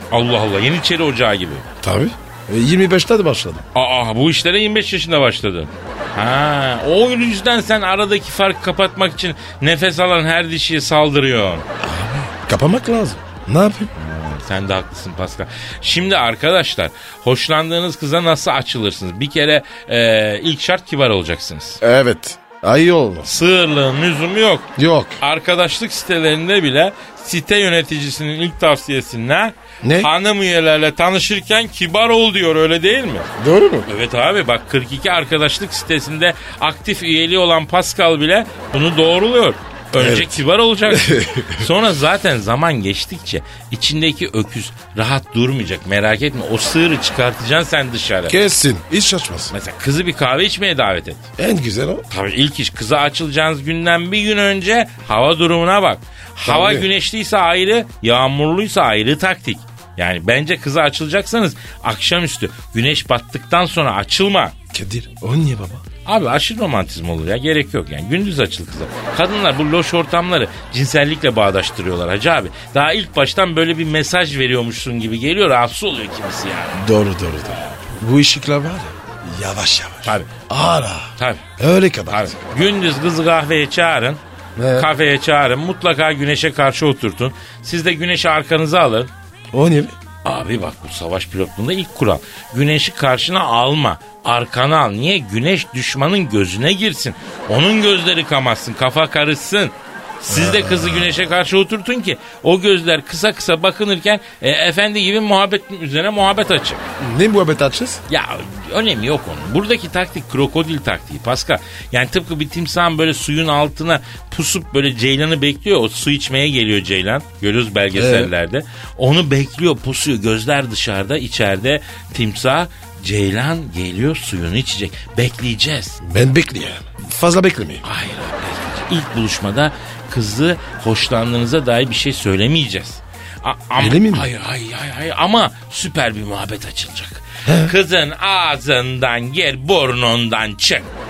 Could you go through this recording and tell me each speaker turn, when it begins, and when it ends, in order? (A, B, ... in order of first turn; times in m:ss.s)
0:00.1-0:01.6 A
0:01.8-0:03.6 B
0:03.7-0:11.6 A
0:11.8-0:13.9 B
0:14.0-0:21.8 A
0:21.8-0:23.3 B
0:23.2-0:24.7 A
0:24.8-0:25.2 B
0:25.2-0:33.3 A
0:29.8-0:30.1 B
0:33.4-0:33.9 B
0:33.8-0:48.4 A
0:39.9-0:41.7 B
0:48.3-0:49.5 B
0:49.5-0:51.3 A
0:51.4-0:52.0 B
0:52.1-1:04.5 A
0:56.4-0:56.9 B
1:04.7-1:05.8 B
1:06.0-1:16.8 A
1:16.7-1:22.4 B
1:17.4-1:17.8 A
1:20.0-1:20.3 A
1:21.2-1:21.4 A
1:22.1-1:24.2 A
1:24.6-1:24.9 B
1:24.7-1:29.1 A
1:29.5-1:29.9 B
1:30.2-1:46.8 A
1:40.3-1:41.3 B
1:47.0-1:48.0 B
1:48.1-2:06.0 A
1:57.9-1:58.3 B
2:06.0-2:07.8 B
2:07.8-2:20.9 A
2:13.8-2:14.3 B
2:17.4-2:17.7 B